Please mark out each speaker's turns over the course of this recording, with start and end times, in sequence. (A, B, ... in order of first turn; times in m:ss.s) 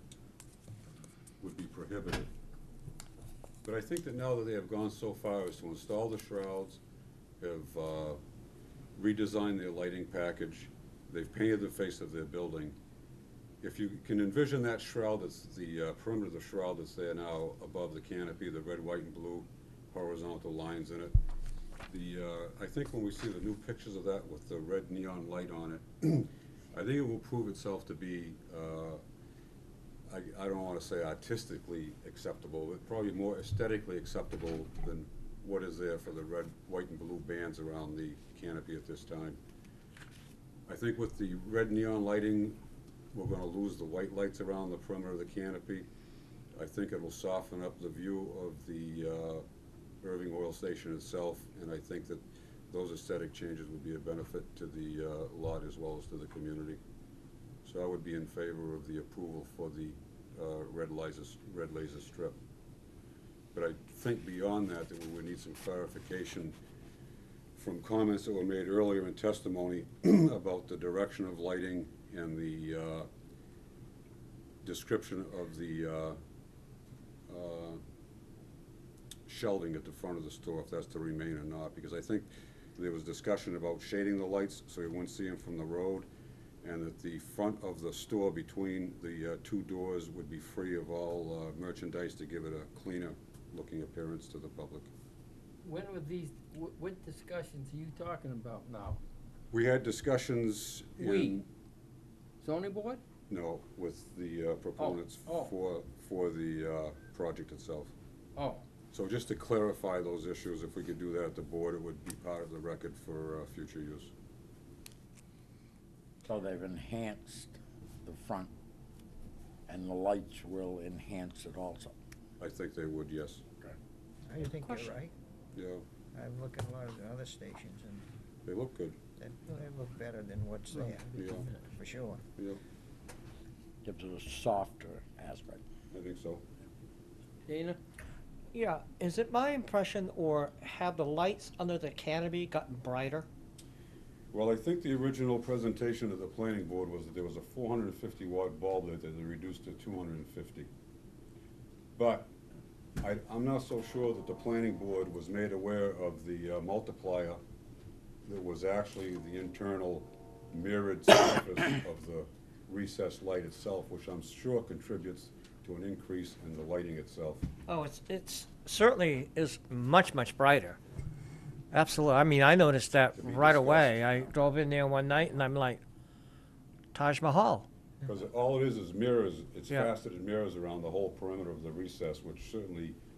0:01.4-0:02.3 A
0:03.6-0:06.8 A
0:07.4-0:08.2 A
0:08.9-0:12.8 A
0:13.6-0:21.1 A
0:21.9-0:29.0 A
0:30.1-0:39.4 A
0:40.7-0:42.6 A
0:43.1-0:45.9 A
0:46.5-0:49.4 A
0:50.0-0:56.8 A
0:57.6-1:02.4 A
1:03.5-1:06.6 A
1:07.6-1:13.1 A
1:14.6-1:16.2 A
1:17.3-1:17.8 A
1:19.3-1:26.1 A
1:26.6-1:34.9 A
1:35.6-1:39.0 B
1:39.5-1:41.4 A
1:41.0-1:41.4 B
1:42.4-1:43.0 B
1:43.3-1:47.9 A
1:44.8-1:45.5 B
1:48.4-1:48.6 B
1:48.9-1:54.1 A
1:56.2-1:58.5 C
1:59.7-2:01.9 C
2:02.4-2:03.4 A
2:04.2-2:05.1 D
2:04.6-2:04.9 E
2:05.5-2:05.8 A
2:06.1-2:08.0 D
2:08.4-2:09.0 A
2:09.2-2:12.2 D
2:10.7-2:11.6 B
2:11.1-2:11.5 A
2:13.8-2:15.6 C
2:15.9-2:16.4 A
2:17.4-2:17.8 B
2:18.5-2:23.3 E
2:24.3-2:30.7 A
2:32.0-2:32.3 A
2:33.0-2:37.4 A
2:38.2-2:47.5 A
2:47.7-2:50.8 E
2:51.7-2:55.8 E
2:53.1-2:54.3 A
2:56.9-2:57.7 E
2:58.0-3:03.0 A